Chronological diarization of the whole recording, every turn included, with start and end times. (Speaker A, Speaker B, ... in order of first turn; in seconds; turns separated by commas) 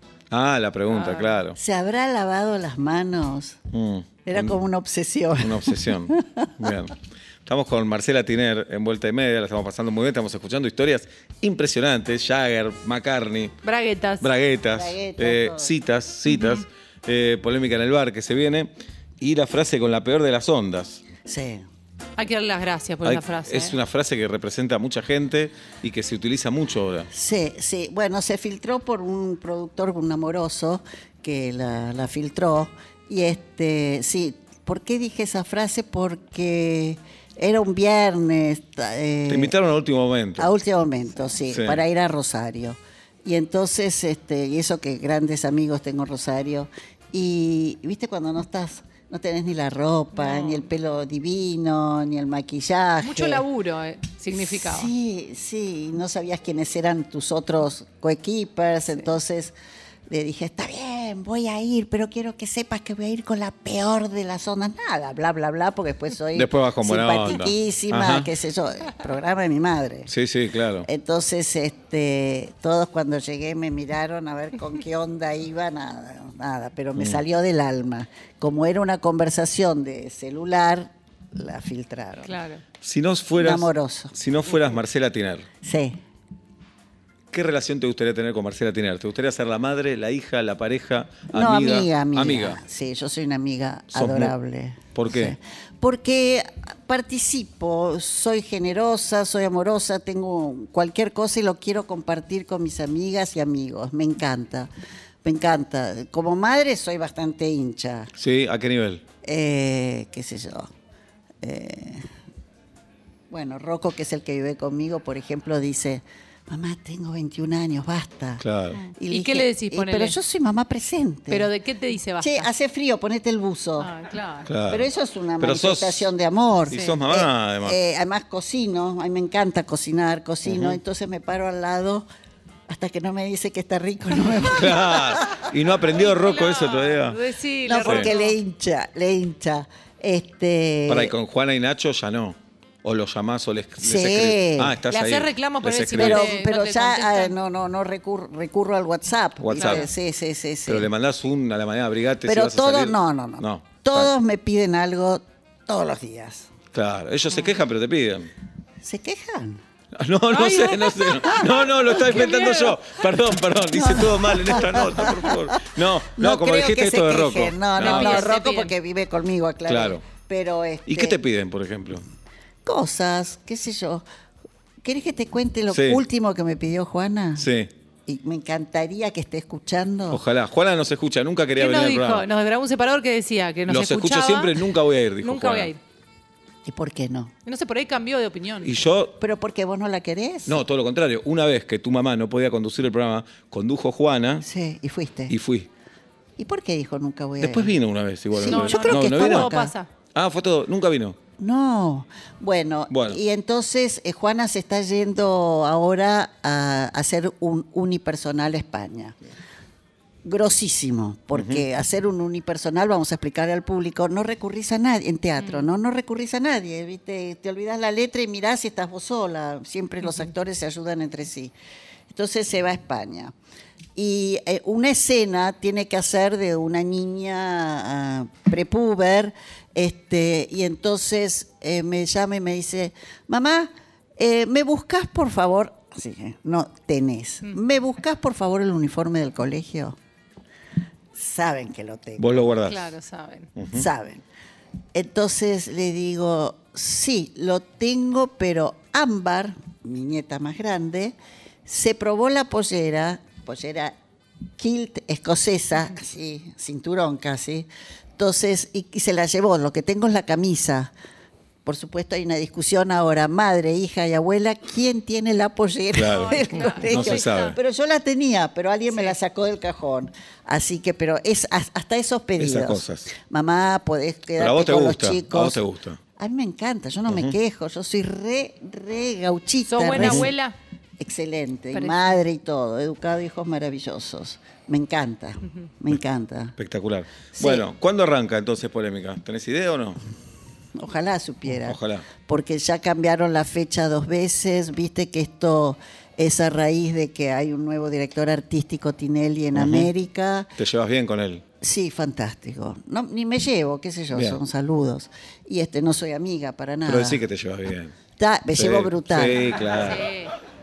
Speaker A: 0.3-1.6, Speaker B: 0.9-1.3, Speaker C: 1.6-3.6, Speaker A: 3.7-4.6, Speaker C: 4.2-6.5, Speaker A: 5.4-13.5, Speaker B: 13.6-14.3, Speaker A: 14.2-21.0, Speaker C: 14.7-15.7, Speaker B: 16.3-16.6, Speaker C: 21.2-21.6, Speaker B: 22.2-23.8, Speaker A: 23.0-27.1, Speaker C: 27.1-39.5, Speaker A: 39.3-40.5, Speaker C: 40.4-53.4, Speaker A: 41.5-41.8, Speaker B: 50.1-50.6, Speaker B: 53.0-54.9, Speaker C: 54.3-59.5, Speaker C: 60.1-70.1, Speaker A: 66.3-68.3, Speaker A: 70.1-70.9, Speaker C: 70.8-82.3, Speaker A: 77.0-77.2, Speaker B: 82.2-82.6, Speaker A: 82.8-85.5, Speaker C: 83.4-84.1, Speaker C: 85.6-86.0, Speaker A: 87.3-92.6, Speaker C: 91.3-104.7, Speaker A: 93.9-94.3, Speaker A: 94.9-95.3, Speaker C: 105.2-108.1, Speaker A: 108.2-109.0, Speaker C: 109.2-110.7, Speaker C: 111.4-112.1, Speaker C: 113.3-118.4, Speaker A: 118.4-118.8, Speaker B: 118.8-120.1, Speaker C: 119.0-121.5, Speaker B: 121.3-122.5, Speaker C: 122.2-123.9, Speaker B: 123.8-124.5, Speaker A: 124.5-124.9, Speaker C: 124.7-132.1, Speaker A: 125.4-126.1, Speaker A: 126.7-127.8, Speaker B: 126.7-127.0, Speaker A: 130.4-130.8, Speaker C: 132.7-135.4, Speaker A: 134.5-137.2, Speaker B: 135.9-138.4, Speaker C: 137.6-141.1, Speaker A: 137.8-138.1, Speaker A: 140.9-146.3, Speaker C: 143.8-144.8, Speaker B: 144.9-147.3, Speaker C: 145.9-150.9, Speaker A: 149.4-149.9, Speaker B: 149.5-149.9, Speaker A: 150.7-154.1, Speaker C: 152.2-156.5, Speaker A: 156.7-158.3, Speaker C: 158.8-159.6, Speaker A: 159.9-168.3, Speaker B: 160.3-162.8, Speaker C: 163.7-171.2, Speaker B: 167.8-168.7, Speaker A: 169.7-170.0, Speaker A: 170.9-172.0, Speaker C: 172.6-174.0, Speaker C: 174.8-177.5, Speaker A: 175.7-176.0, Speaker A: 177.4-177.7, Speaker C: 178.1-180.2, Speaker A: 180.1-182.2, Speaker B: 181.6-184.6, Speaker A: 183.7-185.7, Speaker B: 185.2-185.8, Speaker C: 186.7-187.3, Speaker B: 187.4-188.7, Speaker A: 188.6-189.2, Speaker C: 189.2-190.6, Speaker A: 190.5-194.4, Speaker C: 194.4-195.3, Speaker A: 195.3-195.7, Speaker C: 196.4-197.8, Speaker A: 197.4-199.5, Speaker C: 198.3-199.7, Speaker B: 198.5-199.9, Speaker A: 200.1-201.2, Speaker C: 201.4-209.2, Speaker A: 202.9-203.2, Speaker C: 210.2-221.5, Speaker A: 211.3-211.6, Speaker B: 215.4-215.7, Speaker C: 222.1-223.3, Speaker C: 223.9-240.0, Speaker C: 241.1-242.5, Speaker A: 242.2-242.8, Speaker B: 242.6-243.5, Speaker A: 243.6-243.8, Speaker C: 243.7-244.2, Speaker C: 244.9-253.9, Speaker C: 254.6-260.9, Speaker C: 261.6-275.6, Speaker A: 265.9-267.6, Speaker B: 266.1-267.6, Speaker A: 272.4-273.1, Speaker A: 274.4-276.0, Speaker C: 276.2-280.3, Speaker A: 277.1-277.4, Speaker B: 279.7-280.5, Speaker A: 279.9-280.3, Speaker C: 281.0-286.5, Speaker B: 281.7-282.0, Speaker A: 286.6-290.0, Speaker C: 287.4-287.6, Speaker C: 290.8-300.5, Speaker A: 291.5-292.1, Speaker A: 299.5-299.9, Speaker A: 300.6-301.4, Speaker C: 301.6-307.2, Speaker A: 304.1-304.4, Speaker A: 306.8-307.9, Speaker C: 308.2-309.6, Speaker A: 308.6-310.1, Speaker B: 309.6-310.3